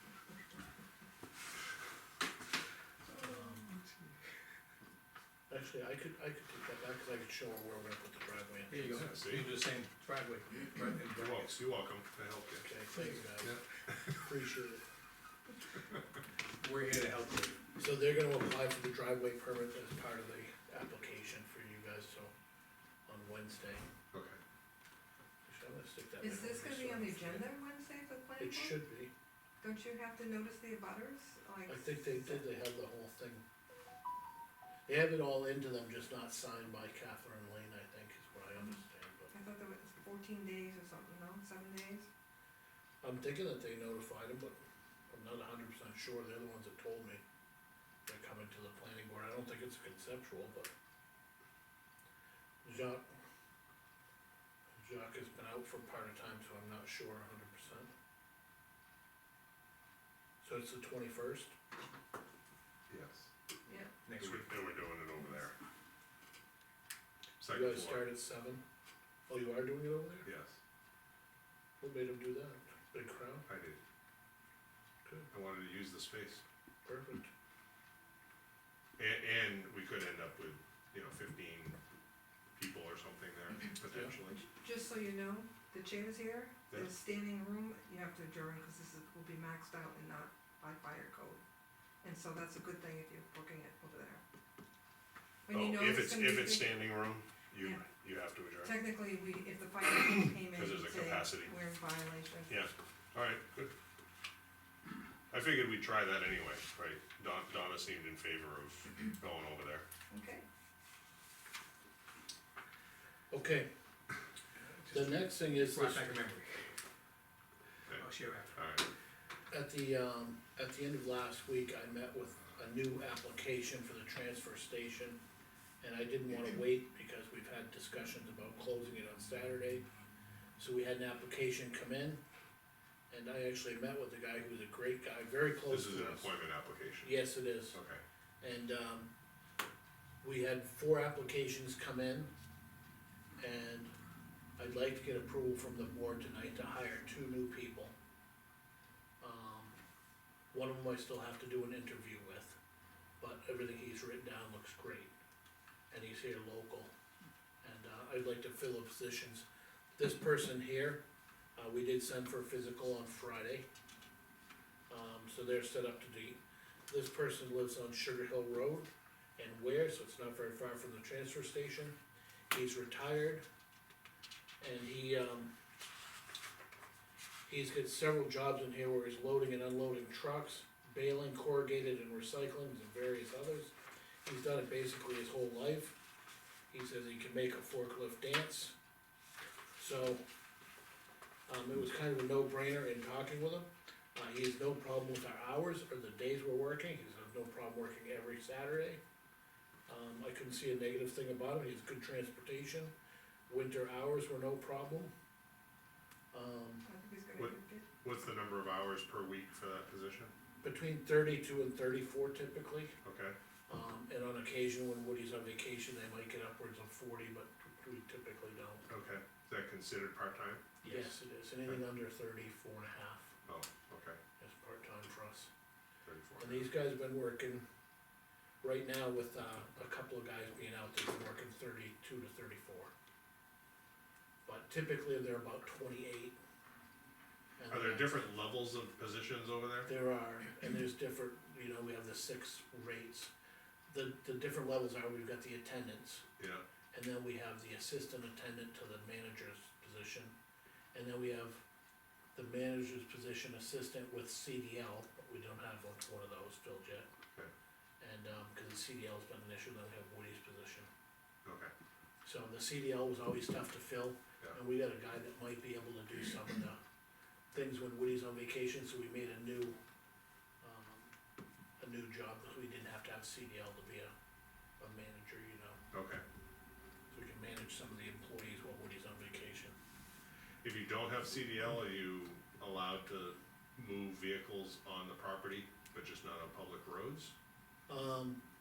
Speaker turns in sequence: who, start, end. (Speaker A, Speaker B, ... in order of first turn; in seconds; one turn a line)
Speaker A: 3.2-3.6
Speaker A: 5.5-9.0
Speaker B: 8.7-11.4
Speaker C: 8.9-9.5
Speaker C: 11.1-12.7
Speaker A: 12.6-13.6
Speaker C: 13.4-14.2
Speaker A: 14.2-14.8
Speaker B: 16.6-17.6
Speaker A: 17.8-22.3
Speaker A: 23.1-23.9
Speaker C: 24.1-24.4
Speaker A: 25.5-27.5
Speaker D: 26.2-28.8
Speaker A: 28.4-29.1
Speaker D: 29.6-32.4
Speaker A: 31.7-33.4
Speaker A: 34.9-39.3
Speaker D: 39.3-42.1
Speaker A: 43.0-44.6
Speaker A: 45.1-47.2
Speaker A: 48.1-50.7
Speaker A: 52.6-53.1
Speaker A: 54.8-57.9
Speaker A: 60.4-61.5
Speaker C: 62.9-63.3
Speaker D: 63.7-63.9
Speaker B: 64.0-64.5
Speaker C: 64.2-65.6
Speaker C: 67.4-68.0
Speaker A: 67.5-68.6
Speaker A: 69.3-70.3
Speaker C: 70.2-70.6
Speaker A: 71.8-73.5
Speaker C: 73.5-73.8
Speaker C: 75.3-76.4
Speaker A: 76.8-77.3
Speaker C: 79.0-81.8
Speaker C: 82.6-84.4
Speaker D: 84.3-91.4
Speaker D: 92.0-94.2
Speaker D: 95.5-96.8
Speaker C: 95.5-98.8
Speaker D: 98.6-102.7
Speaker C: 100.2-101.5
Speaker C: 102.5-103.7
Speaker C: 105.3-109.9
Speaker D: 110.1-110.5
Speaker A: 113.3-113.7
Speaker B: 114.9-116.7
Speaker A: 114.9-116.2
Speaker C: 117.9-118.9
Speaker B: 118.0-118.6
Speaker A: 119.5-125.2
Speaker A: 125.8-129.8
Speaker A: 130.6-132.2
Speaker A: 133.1-136.3
Speaker C: 135.7-137.2
Speaker A: 137.0-137.8
Speaker C: 137.7-138.0
Speaker A: 138.4-139.1
Speaker A: 140.2-142.3
Speaker A: 143.4-143.9
Speaker A: 144.6-147.9
Speaker A: 149.2-149.8
Speaker A: 150.5-152.6
Speaker A: 153.2-155.1
Speaker A: 155.9-156.9
Speaker A: 157.6-159.5
Speaker A: 160.0-161.0
Speaker A: 161.6-163.7
Speaker A: 164.9-172.0
Speaker A: 172.5-173.4
Speaker A: 174.6-175.5
Speaker A: 177.5-183.7
Speaker A: 184.2-186.0
Speaker A: 186.7-188.8
Speaker A: 189.8-190.2
Speaker A: 191.5-199.0
Speaker A: 199.9-202.9
Speaker A: 203.5-205.1
Speaker A: 206.3-206.8
Speaker D: 206.8-207.9
Speaker C: 207.4-210.3
Speaker A: 210.6-212.9
Speaker C: 213.0-213.3
Speaker A: 213.7-218.9
Speaker C: 218.9-221.1
Speaker A: 220.8-223.4
Speaker C: 223.4-224.2
Speaker A: 224.4-225.5
Speaker C: 226.1-226.7
Speaker A: 226.4-227.6
Speaker A: 228.6-232.9
Speaker A: 234.5-236.4
Speaker A: 237.6-238.1
Speaker C: 237.7-239.9
Speaker A: 239.9-243.3
Speaker A: 243.9-246.3
Speaker C: 246.4-246.6
Speaker A: 246.9-250.3
Speaker A: 250.9-251.6
Speaker A: 252.3-257.1
Speaker A: 258.0-260.9
Speaker C: 261.4-261.7
Speaker A: 262.2-266.8
Speaker A: 267.5-269.8
Speaker A: 270.6-271.1
Speaker A: 271.8-274.1
Speaker A: 274.8-275.8
Speaker C: 275.9-276.2
Speaker A: 277.1-279.8
Speaker C: 280.6-287.4
Speaker A: 287.9-288.4